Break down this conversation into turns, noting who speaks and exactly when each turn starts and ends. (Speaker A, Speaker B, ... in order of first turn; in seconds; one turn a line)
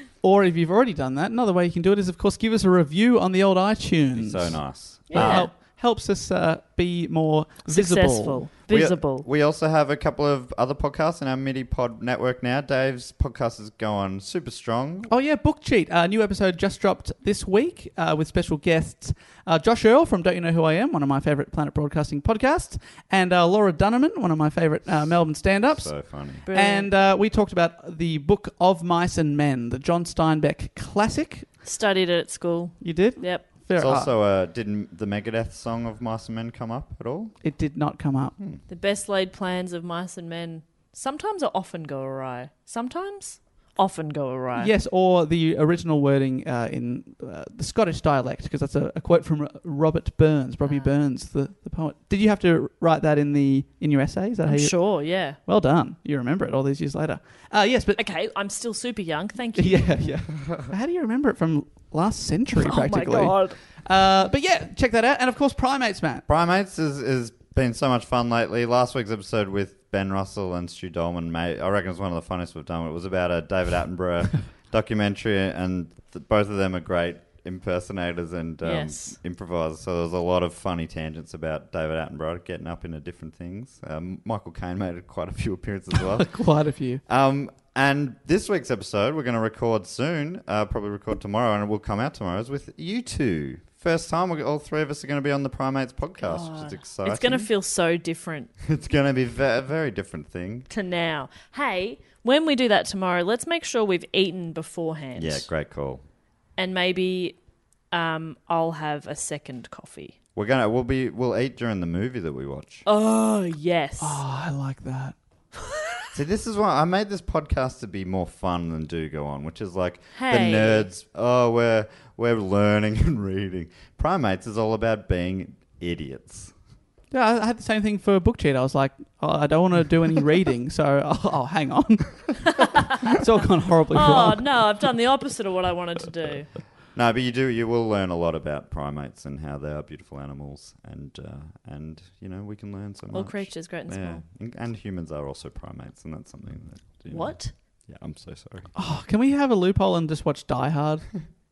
Speaker A: 0.2-8.5
Speaker B: 4.2-5.5
Speaker C: 5.1-5.5
Speaker C: 7.7-9.2
Speaker B: 8.7-15.1
Speaker A: 15.1-31.5
Speaker B: 25.8-26.4
Speaker C: 26.4-26.9
Speaker C: 31.6-33.4
Speaker A: 32.8-34.1
Speaker B: 33.7-37.3
Speaker A: 37.4-38.3
Speaker C: 38.7-44.7
Speaker A: 44.5-54.8
Speaker C: 54.5-55.4
Speaker A: 55.4-58.0
Speaker C: 58.0-60.1
Speaker A: 59.5-66.2
Speaker C: 62.5-63.6
Speaker B: 66.3-86.3
Speaker C: 78.6-79.2
Speaker A: 86.0-87.0
Speaker B: 87.0-97.5
Speaker C: 96.2-98.5
Speaker B: 98.6-100.7
Speaker C: 100.7-105.5
Speaker B: 105.2-106.0
Speaker C: 106.6-107.4
Speaker C: 107.9-110.1
Speaker B: 110.3-112.8
Speaker C: 112.8-114.2
Speaker A: 114.0-115.2
Speaker B: 116.1-126.5
Speaker C: 120.1-120.9
Speaker A: 127.1-132.4
Speaker C: 132.5-133.2
Speaker A: 133.0-134.5
Speaker C: 133.9-136.5
Speaker B: 136.9-148.7
Speaker C: 143.1-144.2
Speaker C: 147.1-147.5
Speaker A: 148.7-151.1